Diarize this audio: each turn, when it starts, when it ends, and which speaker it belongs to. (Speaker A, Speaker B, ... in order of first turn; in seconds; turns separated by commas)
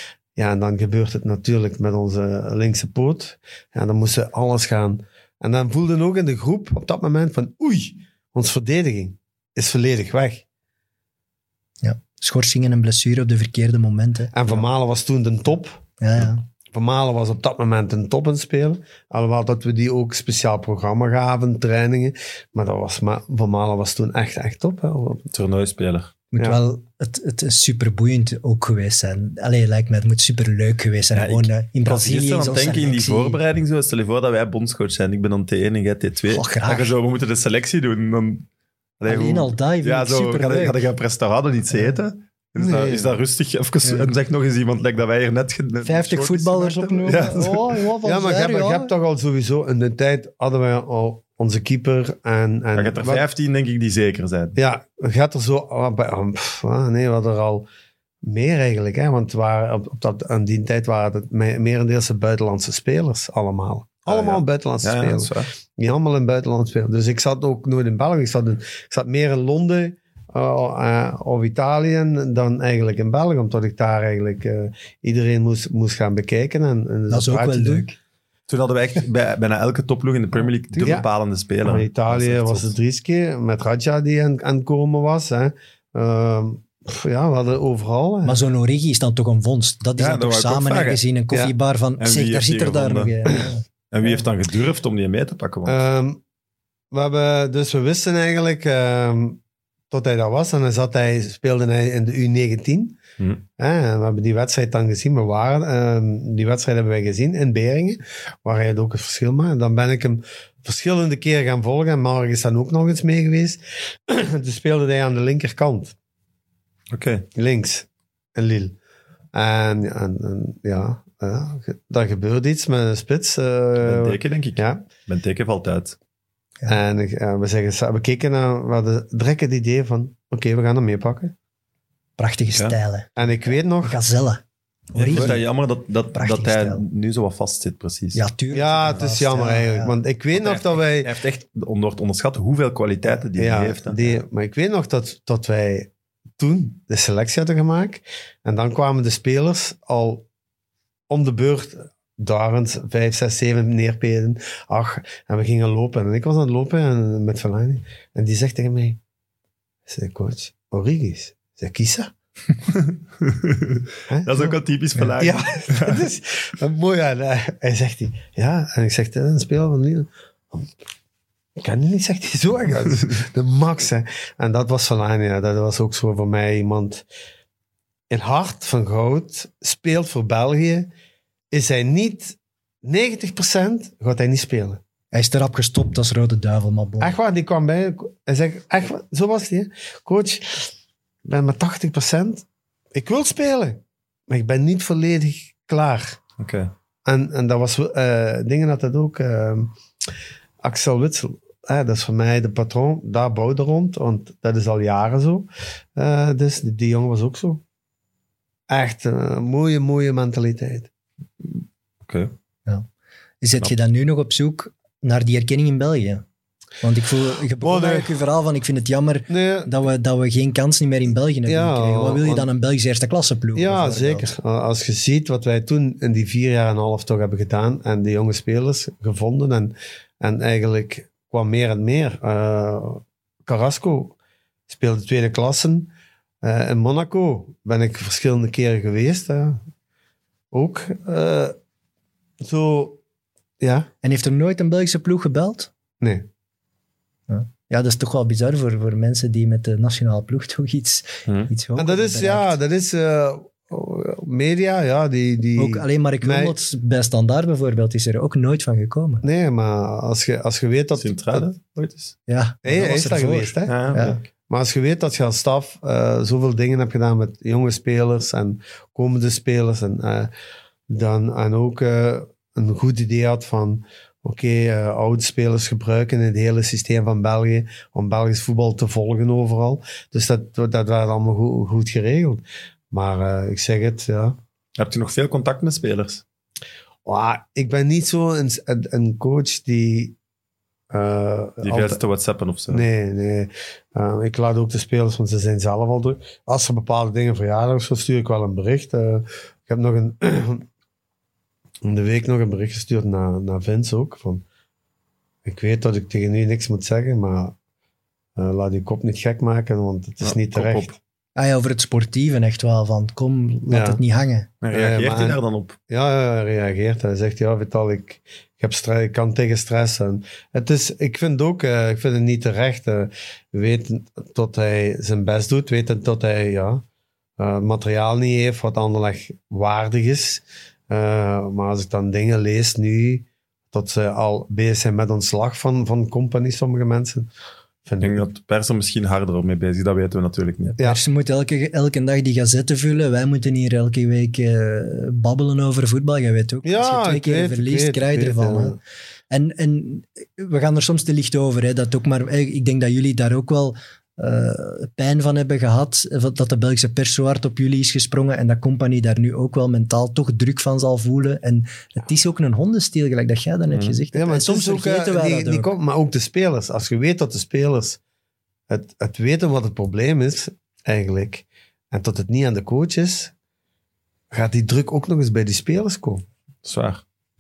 Speaker A: 0.4-10.4, Speaker B: 11.8-14.4, Speaker A: 14.3-15.8, Speaker B: 16.0-16.4, Speaker A: 16.7-25.3, Speaker C: 25.3-26.1, Speaker B: 26.3-33.4, Speaker C: 31.1-38.5, Speaker B: 36.3-36.9, Speaker C: 39.0-47.7, Speaker B: 39.0-40.8, Speaker A: 42.6-43.1, Speaker B: 43.8-44.1, Speaker B: 45.8-48.9, Speaker A: 48.0-53.2, Speaker C: 52.8-54.6, Speaker A: 54.6-57.7, Speaker A: 58.2-77.9, Speaker C: 64.1-65.5, Speaker B: 77.1-78.0, Speaker C: 78.5-82.7, Speaker A: 81.6-88.4, Speaker B: 88.2-93.6, Speaker C: 90.0-91.0, Speaker C: 92.0-95.8, Speaker A: 95.7-96.2, Speaker A: 96.9-99.4, Speaker A: 99.9-103.0, Speaker A: 103.6-116.0, Speaker C: 116.9-117.3, Speaker A: 117.4-118.8, Speaker A: 119.3-124.8, Speaker C: 123.8-126.0, Speaker A: 126.7-131.3, Speaker B: 132.2-133.3, Speaker A: 133.2-134.0, Speaker B: 133.8-134.4, Speaker B: 134.9-135.4, Speaker C: 135.0-138.2, Speaker A: 135.1-135.3, Speaker B: 136.1-136.8, Speaker B: 138.1-139.9, Speaker A: 138.5-141.1, Speaker C: 140.3-144.2, Speaker A: 143.3-150.2, Speaker A: 151.1-159.0, Speaker A: 159.9-162.1, Speaker C: 162.7-166.1, Speaker A: 164.1-164.6, Speaker A: 165.2-170.7, Speaker A: 171.6-177.1, Speaker A: 178.1-180.9, Speaker A: 181.5-184.8, Speaker B: 185.1-187.2, Speaker A: 187.0-190.7, Speaker A: 191.2-196.2, Speaker C: 196.4-196.7, Speaker A: 197.1-199.7, Speaker A: 200.6-207.6, Speaker A: 208.7-210.9, Speaker C: 211.4-212.3, Speaker B: 213.4-216.2, Speaker B: 216.8-224.3, Speaker A: 217.6-218.2, Speaker A: 219.3-219.7, Speaker A: 221.5-222.5, Speaker A: 223.6-234.2, Speaker A: 234.7-239.6, Speaker A: 240.5-241.6, Speaker A: 242.4-243.0, Speaker A: 243.6-243.9, Speaker B: 244.0-245.7, Speaker A: 246.0-246.3, Speaker B: 247.3-252.6, Speaker C: 251.3-251.5, Speaker A: 251.8-256.5, Speaker B: 255.6-259.2, Speaker A: 259.2-261.5, Speaker C: 260.9-262.1, Speaker B: 262.3-264.2, Speaker A: 262.6-270.3, Speaker C: 263.7-264.2, Speaker A: 270.9-284.4, Speaker C: 284.8-286.2, Speaker A: 287.1-290.2, Speaker A: 290.9-292.0, Speaker C: 291.6-292.8, Speaker A: 292.7-300.6, Speaker A: 301.8-304.4, Speaker A: 305.4-307.6, Speaker A: 308.4-310.9, Speaker C: 310.2-311.0, Speaker B: 311.4-314.5, Speaker A: 313.7-314.0, Speaker C: 314.6-315.8, Speaker A: 314.7-326.8, Speaker A: 327.4-337.3, Speaker A: 337.9-338.2, Speaker C: 338.0-340.8, Speaker B: 340.8-348.8, Speaker A: 346.6-348.8, Speaker B: 349.3-365.7, Speaker C: 363.7-364.0, Speaker A: 364.1-368.0, Speaker A: 368.7-373.3, Speaker A: 374.3-376.2, Speaker C: 376.6-377.0